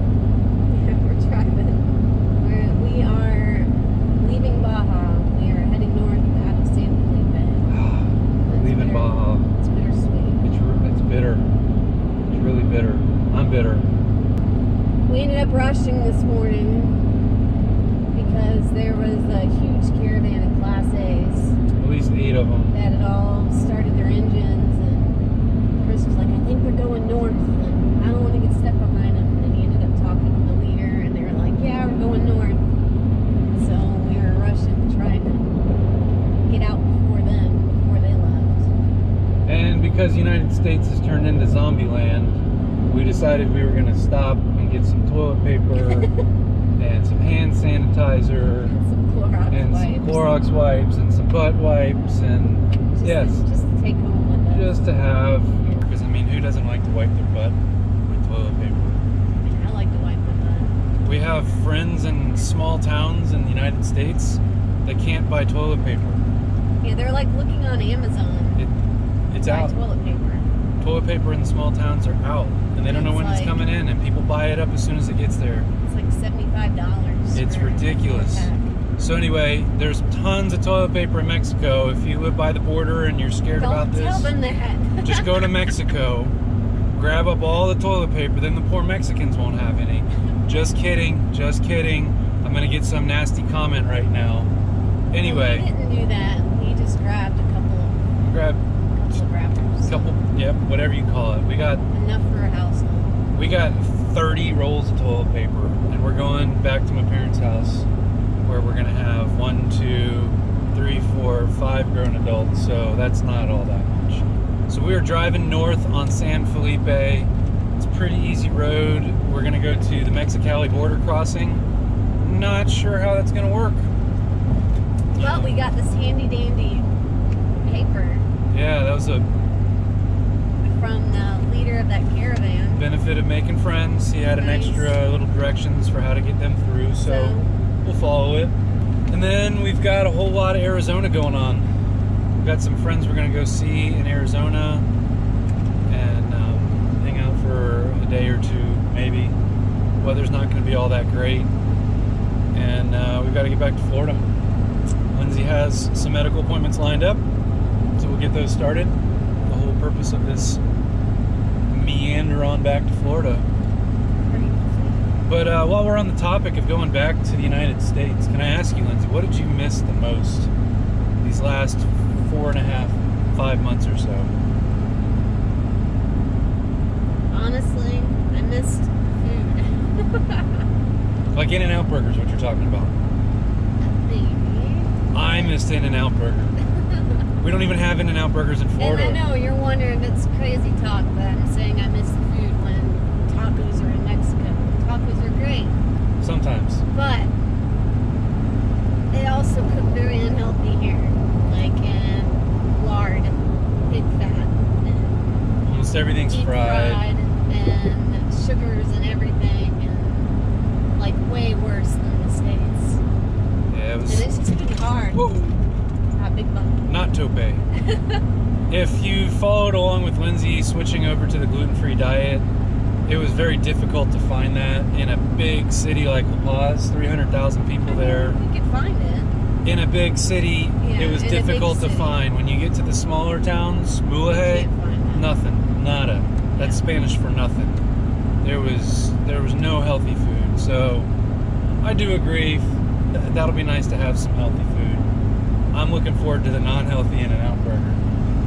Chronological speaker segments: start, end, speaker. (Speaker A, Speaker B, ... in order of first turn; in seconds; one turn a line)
Speaker A: 0.7-1.8
Speaker A: 2.4-7.7
Speaker B: 7.7-9.5
Speaker A: 8.4-10.5
Speaker B: 10.4-11.5
Speaker B: 12.3-13.9
Speaker A: 15.1-17.0
Speaker A: 18.1-21.6
Speaker B: 21.8-22.7
Speaker A: 22.7-25.2
Speaker A: 25.8-32.7
Speaker A: 33.5-35.5
Speaker A: 36.5-38.7
Speaker B: 39.5-46.1
Speaker A: 45.8-46.2
Speaker B: 46.8-48.7
Speaker A: 48.6-50.3
Speaker B: 49.5-53.4
Speaker A: 52.9-55.9
Speaker B: 54.5-59.0
Speaker A: 59.4-61.6
Speaker B: 61.0-66.2
Speaker A: 66.8-68.7
Speaker B: 69.3-69.8
Speaker A: 69.4-70.5
Speaker B: 70.8-75.7
Speaker A: 72.8-73.7
Speaker A: 75.8-78.7
Speaker B: 77.3-84.3
Speaker A: 83.5-85.6
Speaker B: 85.0-86.3
Speaker B: 86.9-94.5
Speaker B: 95.1-95.7
Speaker A: 95.2-98.1
Speaker B: 98.2-98.6
Speaker A: 98.9-100.1
Speaker B: 99.8-101.8
Speaker A: 101.9-103.1
Speaker B: 103.3-107.9
Speaker B: 108.4-121.6
Speaker B: 122.2-123.9
Speaker B: 125.1-125.6
Speaker A: 125.2-126.9
Speaker A: 127.6-128.3
Speaker B: 128.5-129.3
Speaker A: 130.6-132.9
Speaker B: 132.7-138.5
Speaker A: 134.3-135.0
Speaker A: 137.0-137.5
Speaker B: 139.1-141.7
Speaker B: 142.4-144.9
Speaker B: 145.9-149.4
Speaker B: 150.0-151.5
Speaker B: 152.5-154.3
Speaker B: 155.1-157.2
Speaker B: 158.0-160.6
Speaker B: 161.7-163.5
Speaker A: 164.2-165.1
Speaker B: 165.3-170.5
Speaker B: 171.2-174.3
Speaker A: 177.3-180.7
Speaker B: 181.3-182.9
Speaker A: 183.8-185.6
Speaker B: 185.1-186.6
Speaker A: 186.8-187.1
Speaker B: 187.4-189.2
Speaker A: 188.8-195.8
Speaker B: 196.2-196.8
Speaker A: 196.9-197.3
Speaker A: 199.1-205.5
Speaker B: 205.6-207.0
Speaker A: 206.3-210.4
Speaker A: 211.0-213.0
Speaker B: 213.7-214.3
Speaker A: 214.1-215.2
Speaker B: 215.1-215.6
Speaker A: 216.1-216.9
Speaker B: 216.9-217.6
Speaker A: 217.8-218.2
Speaker B: 218.7-222.5
Speaker B: 223.1-228.4
Speaker A: 227.8-229.3
Speaker B: 229.7-237.8
Speaker A: 230.8-232.2
Speaker A: 234.2-235.3
Speaker A: 236.6-236.8
Speaker B: 238.4-241.1
Speaker B: 241.8-245.1
Speaker B: 245.7-248.0